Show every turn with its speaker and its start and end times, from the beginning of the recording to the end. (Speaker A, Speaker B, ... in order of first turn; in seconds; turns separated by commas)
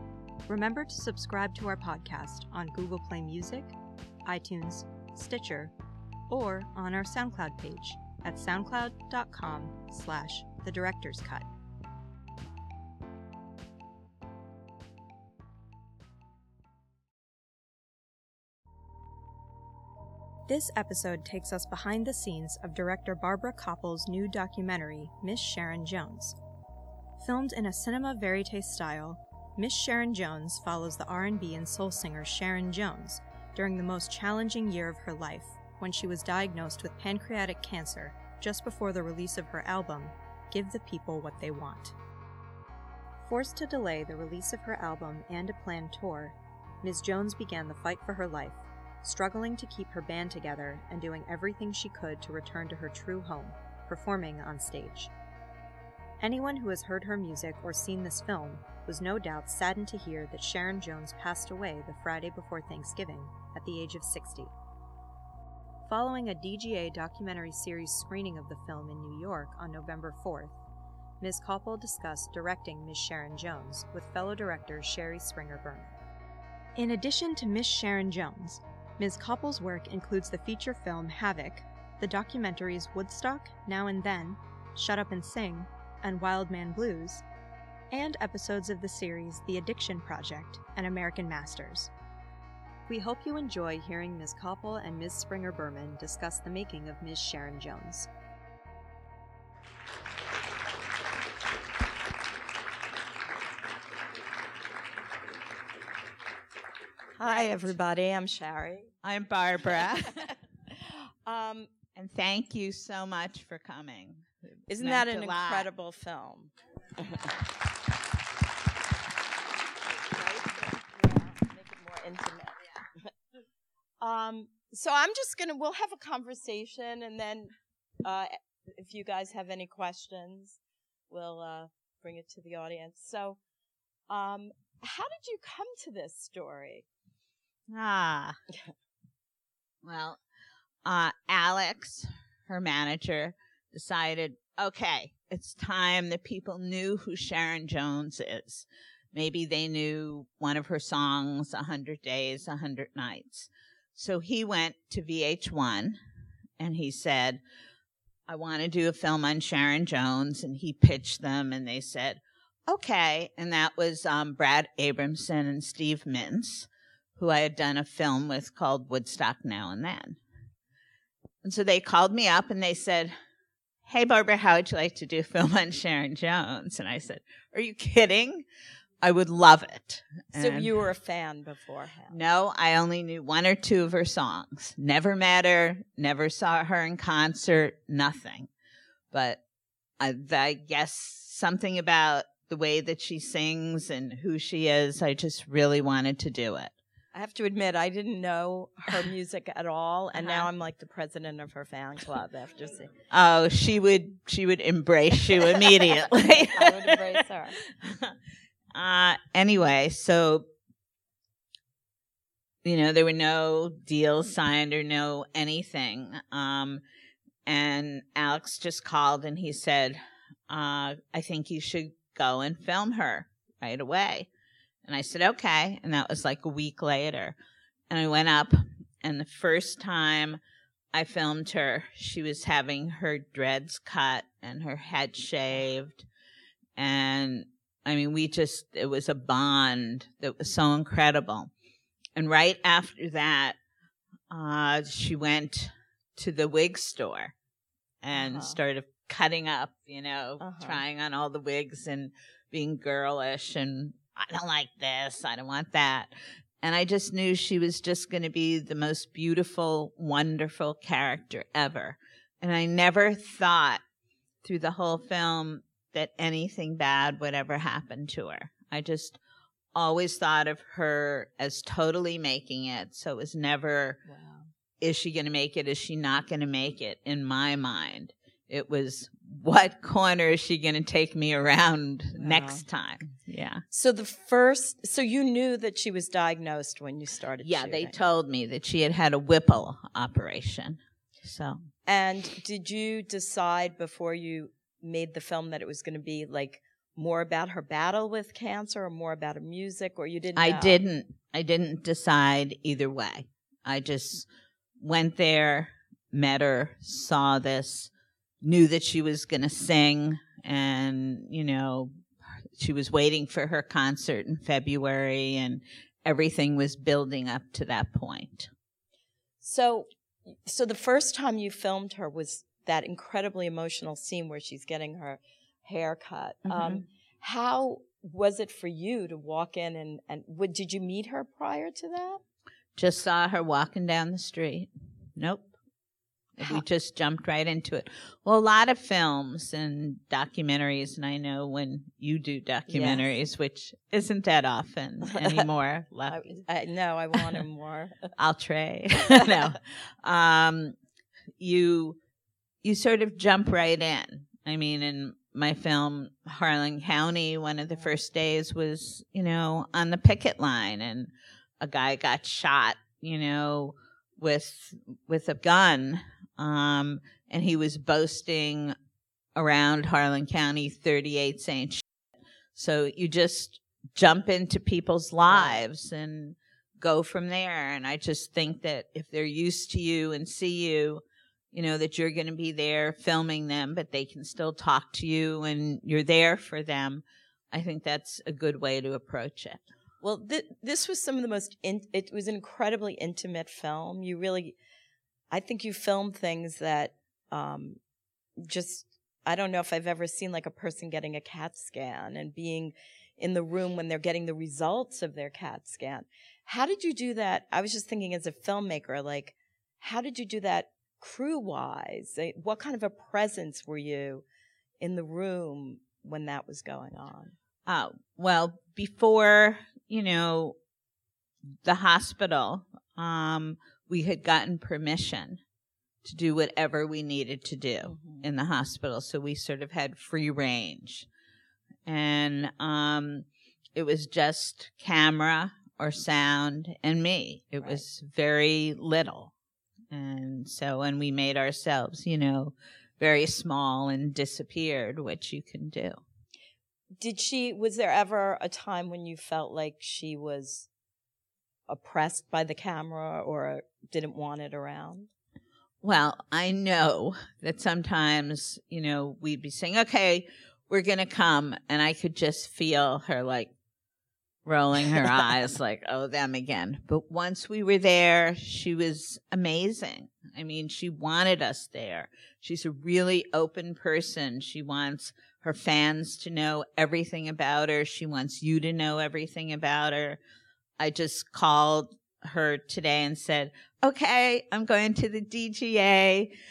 Speaker A: 0.5-3.7, Speaker A: 4.2-5.7, Speaker A: 6.3-11.5, Speaker A: 20.5-26.4, Speaker A: 27.2-41.9, Speaker A: 43.2-55.1, Speaker A: 56.2-64.5, Speaker A: 65.8-70.6, Speaker A: 71.2-76.0, Speaker A: 76.8-87.2, Speaker A: 87.9-91.9, Speaker A: 92.9-98.1, Speaker B: 107.2-108.9, Speaker C: 109.0-110.3, Speaker B: 109.8-111.7, Speaker C: 111.9-115.7, Speaker B: 114.7-117.3, Speaker B: 120.1-123.1, Speaker B: 124.0-127.5, Speaker B: 128.0-130.6, Speaker B: 131.1-133.4, Speaker B: 134.1-136.8, Speaker C: 137.7-138.4, Speaker C: 139.8-140.2, Speaker C: 140.8-156.0, Speaker C: 156.6-157.4, Speaker C: 158.3-170.2, Speaker C: 171.4-173.1, Speaker C: 173.8-178.4, Speaker C: 179.0-180.7, Speaker B: 180.3-182.2, Speaker C: 182.1-188.5, Speaker C: 189.1-189.4, Speaker C: 190.0-196.7, Speaker B: 197.1-202.9, Speaker C: 200.2-200.5, Speaker C: 203.1-208.2, Speaker B: 205.6-207.7, Speaker C: 208.7-210.4, Speaker C: 212.6-216.8, Speaker C: 217.4-224.3, Speaker C: 224.8-227.4, Speaker C: 227.9-230.4, Speaker C: 230.9-236.1, Speaker C: 236.8-241.5, Speaker C: 242.2-243.6, Speaker C: 244.3-247.3, Speaker C: 248.0-256.1, Speaker B: 248.1-248.6, Speaker B: 250.4-250.8, Speaker C: 256.6-263.8, Speaker C: 264.4-269.2, Speaker C: 269.7-274.0, Speaker B: 274.1-274.5, Speaker C: 274.8-283.6, Speaker B: 282.1-282.6, Speaker B: 283.7-287.9, Speaker C: 287.4-291.6, Speaker B: 291.9-300.8, Speaker C: 300.4-304.3, Speaker C: 304.8-307.9, Speaker C: 308.4-318.5, Speaker B: 319.4-332.2, Speaker C: 326.5-326.8, Speaker C: 332.8-335.5, Speaker C: 336.4-346.2, Speaker B: 342.7-343.1, Speaker B: 345.0-345.5, Speaker B: 346.1-348.1, Speaker C: 348.2-350.8, Speaker C: 351.4-352.0, Speaker C: 352.6-361.1, Speaker C: 361.6-368.7, Speaker C: 369.4-371.8, Speaker C: 372.6-389.7, Speaker B: 375.3-375.6, Speaker B: 390.0-394.6, Speaker B: 395.3-397.8, Speaker B: 398.4-414.2, Speaker B: 414.8-417.3, Speaker C: 417.7-420.6, Speaker C: 421.6-425.4, Speaker C: 426.0-431.1, Speaker B: 427.8-428.2, Speaker C: 431.9-439.3, Speaker C: 439.9-446.0, Speaker B: 447.0-450.7, Speaker B: 451.7-455.1, Speaker C: 455.8-463.5, Speaker C: 464.4-480.2, Speaker C: 480.8-486.3